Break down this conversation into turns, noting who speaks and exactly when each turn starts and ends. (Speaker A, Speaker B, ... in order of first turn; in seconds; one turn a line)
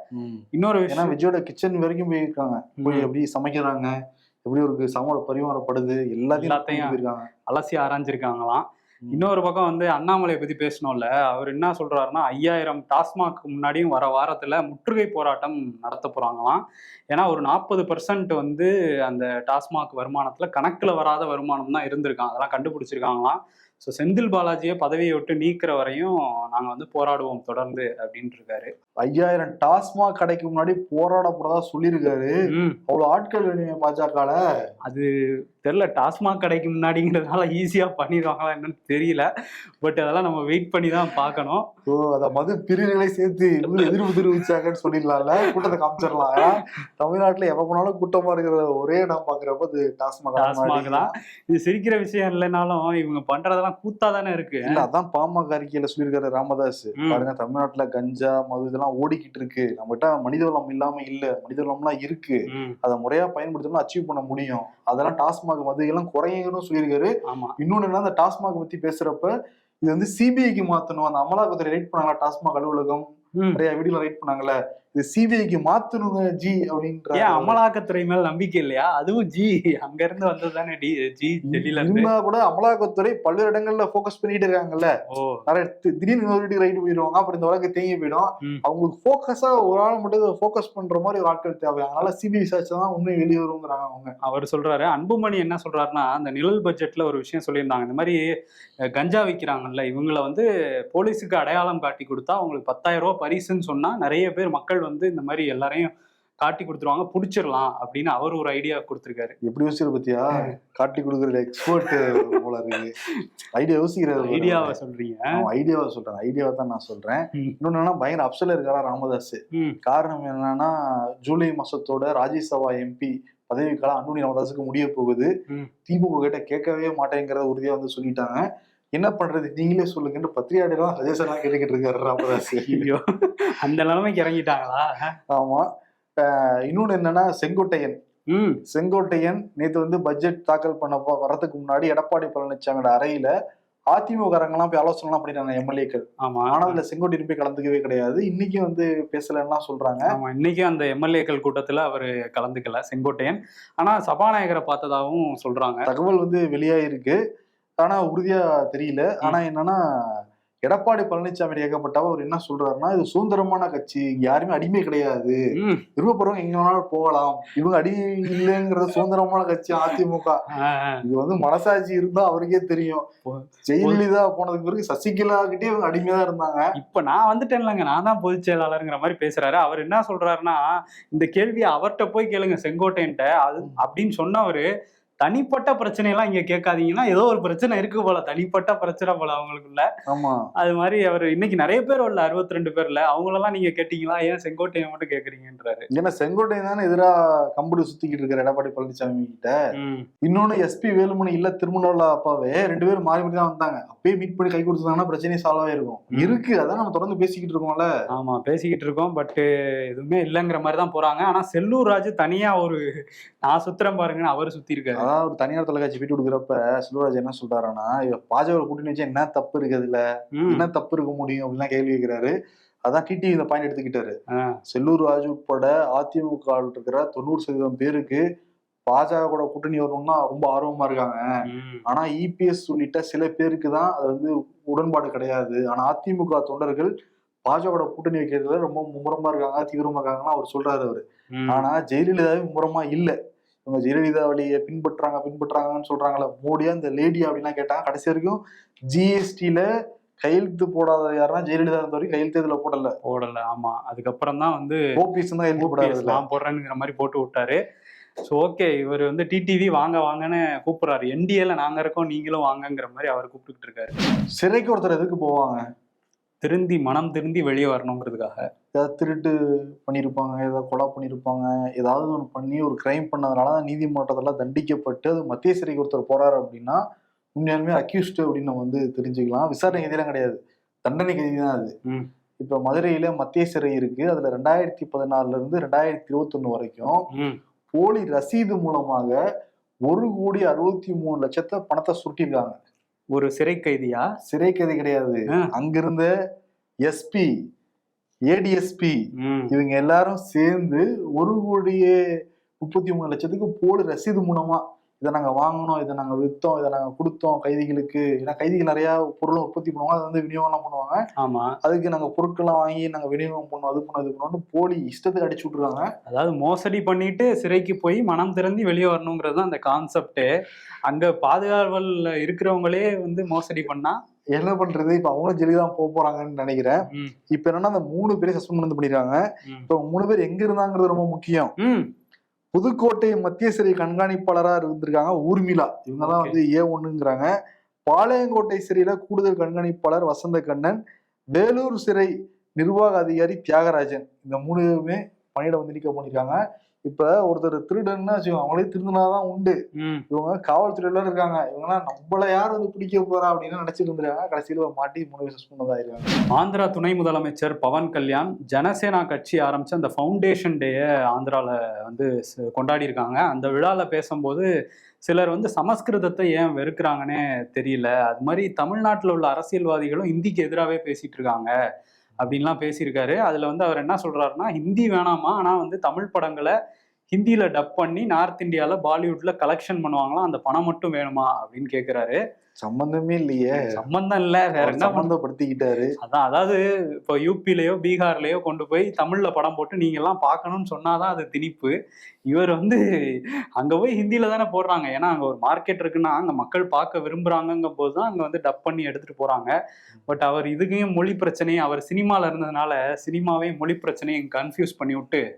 Speaker A: 0.1-3.9
Speaker B: 0.5-1.1
Speaker B: 2.8-3.1
Speaker A: 4.4-7.3
Speaker B: 6.3-28.7
Speaker A: 29.0-34.4
Speaker B: 32.5-32.8
Speaker B: 35.6-39.3
Speaker B: 39.8-41.6
Speaker A: 41.9-51.1
Speaker B: 45.4-45.7
Speaker B: 46.4-46.7
Speaker B: 50.4-54.8
Speaker A: 54.6-69.3
Speaker B: 57.0-57.2
Speaker B: 62.5-62.8
Speaker B: 67.3-67.6
Speaker A: 69.8-77.6
Speaker B: 77.1-82.1
Speaker A: 81.5-84.9
Speaker B: 85.1-85.4
Speaker A: 85.5-94.1
Speaker B: 94.2-98.2
Speaker B: 99.0-105.9
Speaker B: 106.4-109.4
Speaker A: 109.4-112.9
Speaker B: 111.8-112.4
Speaker A: 113.5-114.7
Speaker B: 114.2-115.4
Speaker A: 115.3-125.3
Speaker A: 125.9-132.9
Speaker B: 132.2-135.1
Speaker A: 135.3-135.7
Speaker A: 136.2-138.0
Speaker B: 138.3-138.6
Speaker A: 138.7-143.3
Speaker A: 143.9-150.1
Speaker B: 146.2-146.8
Speaker B: 150.1-155.9
Speaker A: 155.9-157.2
Speaker A: 157.8-159.8
Speaker A: 160.7-165.4
Speaker B: 165.6-165.8
Speaker A: 166.0-170.4
Speaker B: 170.5-171.0
Speaker A: 171.0-173.1
Speaker B: 173.3-174.0
Speaker A: 173.7-176.7
Speaker B: 176.8-184.7
Speaker B: 185.2-189.8
Speaker A: 190.1-190.4
Speaker B: 190.6-195.9
Speaker A: 195.9-199.5
Speaker B: 199.8-200.1
Speaker A: 200.2-207.9
Speaker B: 208.2-212.8
Speaker B: 213.4-215.1
Speaker A: 215.0-224.2
Speaker B: 220.4-220.7
Speaker A: 224.7-228.2
Speaker A: 228.8-231.2
Speaker B: 231.5-231.8
Speaker A: 231.8-236.9
Speaker A: 237.4-249.7
Speaker B: 241.3-241.7
Speaker A: 250.2-252.9
Speaker B: 253.1-254.8
Speaker A: 255.0-256.2
Speaker B: 255.6-257.6
Speaker B: 258.2-263.9
Speaker A: 264.4-265.6
Speaker B: 266.4-268.4
Speaker A: 268.7-276.8
Speaker A: 277.4-281.7
Speaker A: 282.4-287.0
Speaker B: 287.1-287.4
Speaker A: 287.7-289.2
Speaker A: 289.9-292.6
Speaker B: 293.1-294.1
Speaker A: 294.3-296.1
Speaker A: 296.9-297.3
Speaker A: 298.3-299.0
Speaker B: 299.2-299.5
Speaker A: 299.5-302.0
Speaker A: 302.6-311.0
Speaker B: 311.2-311.5
Speaker A: 311.6-315.9
Speaker B: 316.1-320.3
Speaker B: 320.9-324.0
Speaker A: 324.4-331.5
Speaker B: 326.9-327.1
Speaker B: 331.6-331.9
Speaker A: 332.5-337.3
Speaker B: 336.0-336.4
Speaker A: 337.9-340.8
Speaker A: 341.3-349.6
Speaker B: 349.8-350.0
Speaker A: 350.1-356.2
Speaker B: 356.3-364.5
Speaker B: 365.1-371.5
Speaker B: 372.2-376.5
Speaker B: 377.1-382.2
Speaker A: 382.6-383.7
Speaker B: 383.6-385.1
Speaker A: 384.6-385.9
Speaker B: 386.0-391.7
Speaker B: 392.3-392.8
Speaker B: 393.6-399.5
Speaker B: 400.1-405.2